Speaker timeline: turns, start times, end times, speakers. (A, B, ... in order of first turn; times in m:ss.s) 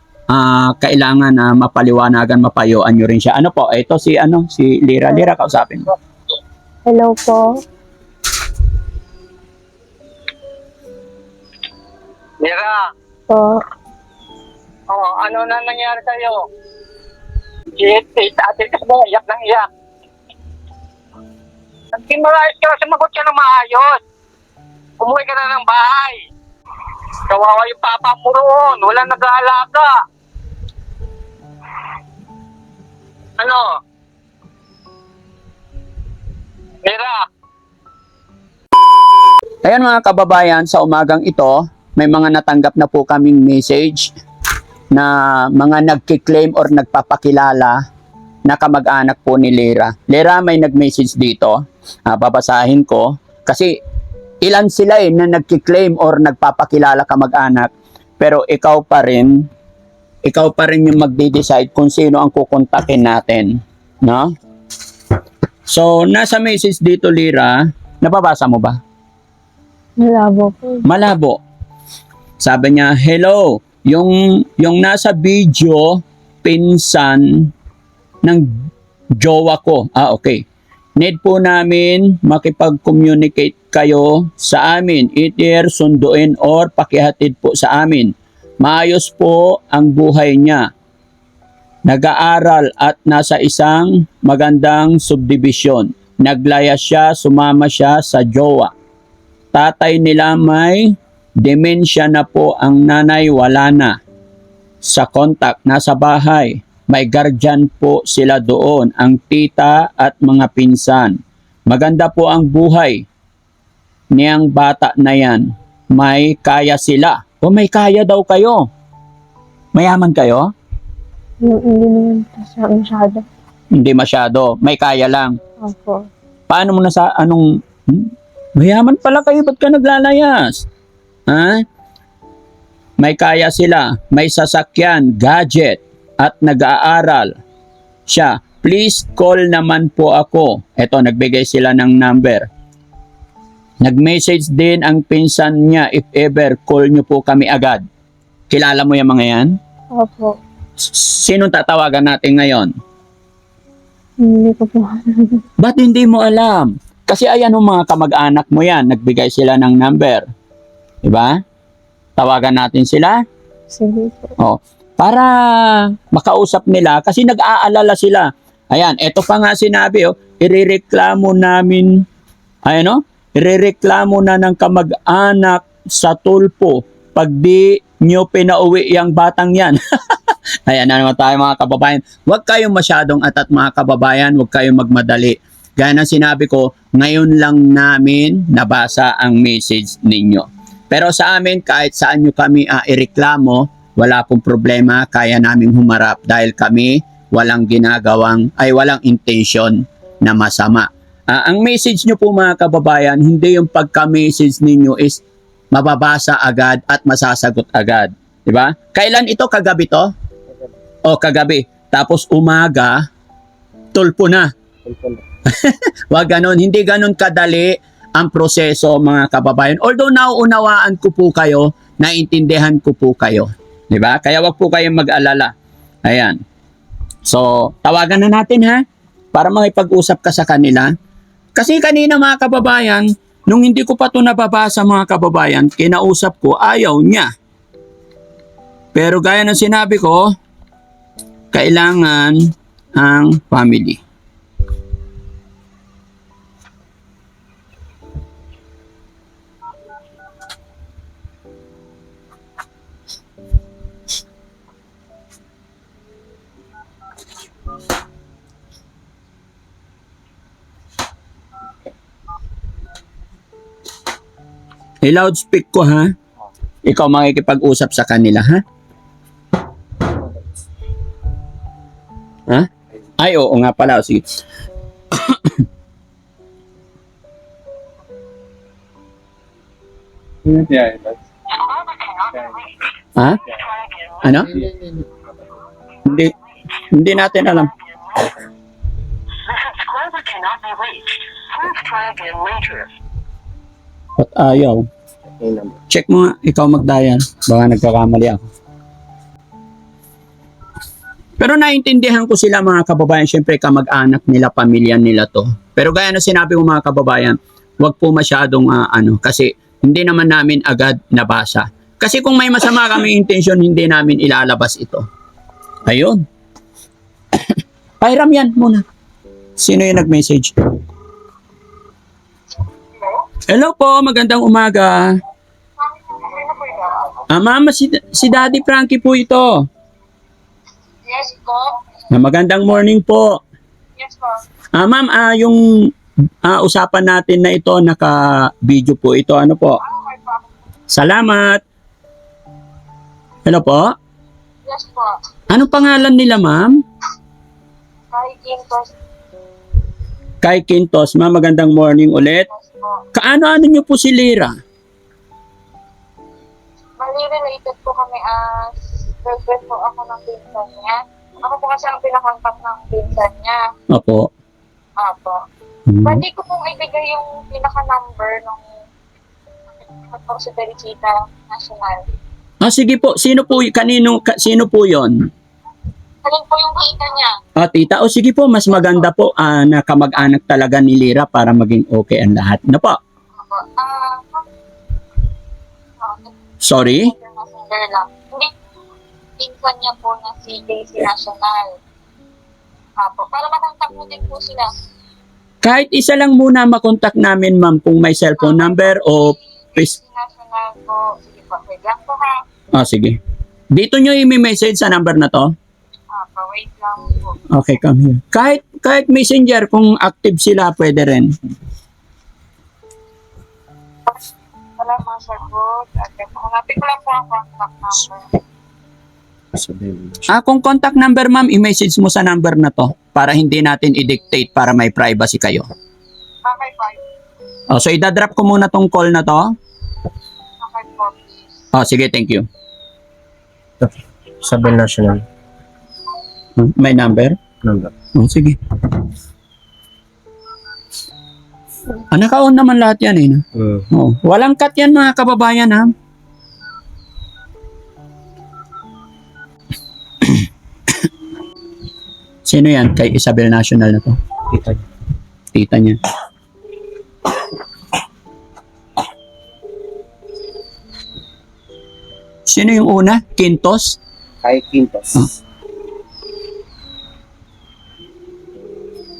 0:00.3-0:05.9 A
0:06.9-0:07.4 B
0:12.4-0:12.8 C
0:13.3-0:13.6 B
0:14.9-0:16.5 C
0:17.8-0:19.7 C
0:22.0-0:24.0 C
0:25.0-0:26.2 C
0:27.3-0:29.9 C
0:33.4-0:33.7 C
0:36.8-0:37.2 C
0:39.6-0:44.1 A
0:44.9-0:47.8 A
0:48.4-0:53.7 A
0:54.4-0:59.5 A
1:00.2-1:04.3 A
1:05.7-1:08.8 A
1:10.0-1:10.8 B
1:10.8-1:11.4 A
1:12.4-1:17.5 A
1:19.2-1:20.4 A
1:21.0-1:30.6 A
1:31.9-1:38.7 A
1:39.5-1:44.0 A
1:44.8-1:51.2 A
1:51.7-1:53.0 A
1:54.1-1:58.7 A
1:59.7-2:00.5 A
2:01.4-2:03.2 B
2:03.7-2:05.4 A
2:05.6-2:06.1 B
2:06.5-2:10.6 A
2:11.3-2:11.6 A
2:13.0-2:17.3 A
2:18.1-2:22.5 A
2:23.8-2:27.8 A
2:28.5-2:29.6 A
2:29.9-2:30.4 B
2:30.8-2:32.7 A
2:34.2-2:35.4 B
2:35.6-2:40.3 A
2:41.0-2:41.4 A
2:42.2-2:43.2 A
2:43.7-2:44.3 B
2:44.4-2:52.0 A
2:52.6-3:30.1 A
3:31.1-3:33.0 A
3:33.9-3:34.5 A
3:34.8-3:35.2 D
3:35.4-3:45.5 A
3:46.0-3:46.4 A
3:47.2-3:50.9 A
3:51.6-3:57.3 A
3:58.9-4:00.3 A
4:01.5-4:04.0 A
4:25.0-4:26.1 A
4:26.8-4:28.6 A
4:32.5-4:34.3 A
4:35.1-4:35.6 A
4:40.4-4:41.2 D
4:41.9-4:42.5 C
4:43.2-4:43.4 A
4:44.2-4:44.6 A
4:44.6-4:45.0 D
4:46.0-4:46.3 A
4:46.9-4:47.7 A
4:50.0-4:51.0 C
4:51.7-4:52.6 E
4:51.9-4:52.7 C
4:54.2-4:54.9 A
4:55.4-4:55.8 D
4:55.9-4:58.4 A
5:01.4-5:15.0 A
5:15.8-5:16.2 A
5:17.3-5:18.8 A
5:19.6-5:20.5 A
5:23.5-5:25.1 A
5:25.8-5:27.2 E
5:27.3-5:29.7 A
5:31.0-5:31.8 E
5:32.1-5:33.4 A
5:34.0-5:34.4 E
5:34.7-5:35.9 A
5:36.4-5:39.8 A
5:39.8-5:40.4 E
5:40.9-5:41.6 A
5:43.4-5:43.9 A
5:44.6-5:45.2 E
5:45.5-5:46.8 A
5:48.1-5:48.9 E
5:50.4-5:52.5 A
5:52.4-5:53.0 E
5:53.1-5:54.5 A
5:57.0-6:03.6 E
6:03.9-6:04.3 A
6:05.0-6:05.4 E
6:05.9-6:06.2 A
6:06.0-6:08.7 E
6:10.0-6:12.0 E
6:12.6-6:15.1 A
6:16.2-6:17.4 E
6:17.6-6:23.0 A
6:23.3-6:24.4 E
6:26.0-6:26.3 E
6:26.6-6:27.1 A
6:26.9-6:28.5 E
6:29.4-6:31.8 E
6:33.0-6:34.7 E
6:35.6-6:39.9 A
6:38.4-6:42.4 E
6:42.7-6:43.2 A
6:43.7-6:45.5 A
6:46.1-6:47.4 E
6:47.5-6:51.3 A
6:54.8-6:58.3 E
6:59.5-7:00.2 D
7:00.3-7:05.7 A
7:06.4-7:07.0 E
7:07.7-7:09.5 A
7:10.6-7:11.5 E
7:11.7-7:12.5 A
7:13.8-7:15.2 D
7:16.6-7:17.4 A
7:17.6-7:17.9 D
7:18.1-7:19.0 A
7:22.1-7:25.9 A
7:23.6-7:23.9 D
7:32.4-7:34.2 A
7:34.5-7:34.8 D
7:35.5-7:36.0 A
7:42.5-7:44.0 A
7:44.4-7:45.3 D